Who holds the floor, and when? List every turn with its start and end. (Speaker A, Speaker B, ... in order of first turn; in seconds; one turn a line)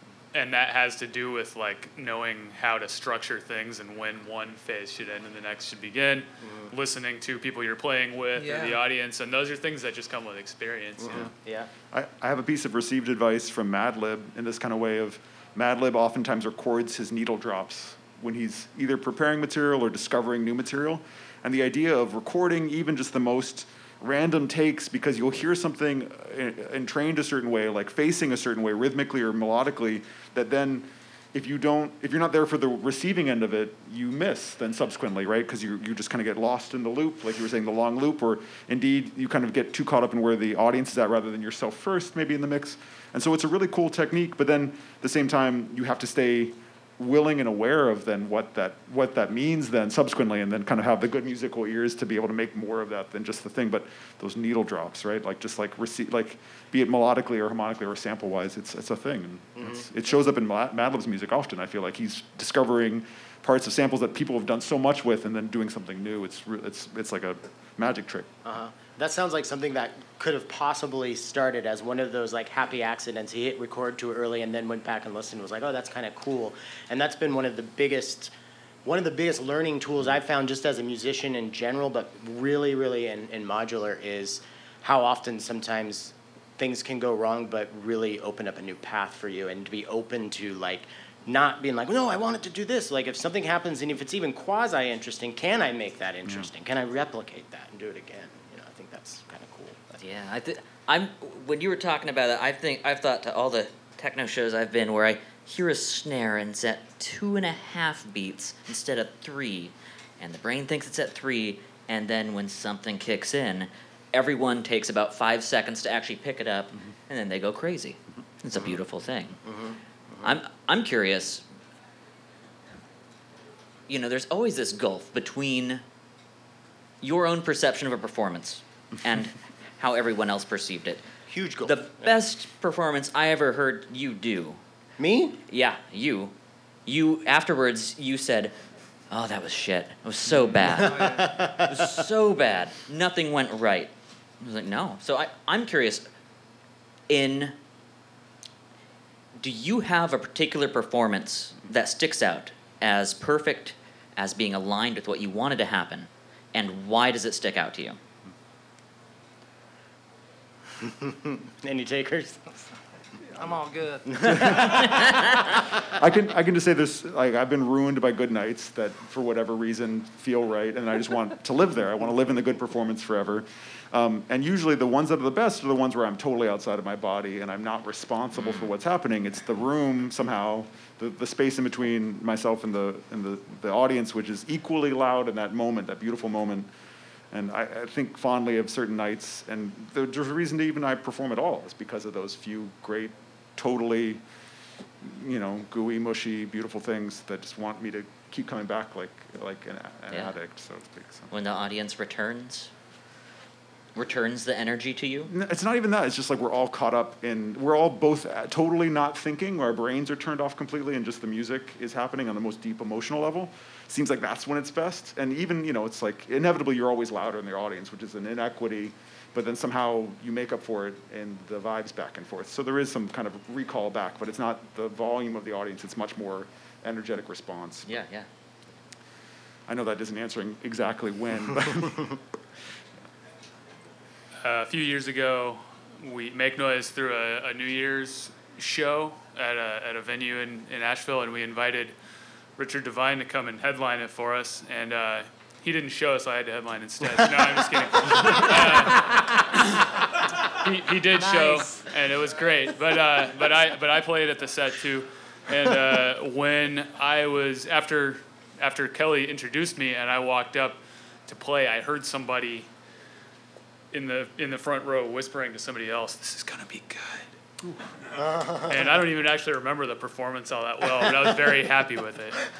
Speaker A: 0.3-11.3
Speaker B: 6.4-6.7
Speaker C: 8.4-8.8
Speaker B: 11.0-11.7
Speaker D: 11.9-68.3
Speaker B: 59.6-59.8
Speaker B: 68.5-78.3
Speaker B: 78.8-100.0
Speaker E: 100.0-119.4
Speaker B: 119.5-120.4
Speaker E: 120.2-121.5
Speaker E: 123.9-125.8
Speaker E: 127.0-131.0
Speaker B: 131.3-132.1
Speaker E: 131.6-134.6
Speaker B: 135.0-135.4
Speaker E: 135.5-136.3
Speaker E: 136.9-138.5
Speaker E: 139.1-146.1
Speaker C: 140.8-141.3
Speaker B: 140.9-141.9
Speaker E: 147.1-147.6
Speaker E: 149.4-158.0
Speaker B: 160.8-162.4
Speaker C: 163.3-164.3
Speaker B: 164.1-165.1
Speaker D: 164.2-165.1
Speaker E: 164.9-165.3
Speaker D: 165.8-186.7
Speaker D: 187.3-194.2
Speaker D: 195.0-201.3
Speaker E: 201.3-202.7
Speaker E: 203.9-205.3
Speaker D: 205.3-228.0
Speaker E: 227.9-228.3
Speaker D: 229.7-232.2
Speaker A: 234.4-241.9
Speaker A: 242.6-262.7
Speaker C: 251.2-251.8
Speaker A: 263.9-267.3
Speaker B: 268.3-268.8
Speaker A: 268.6-272.5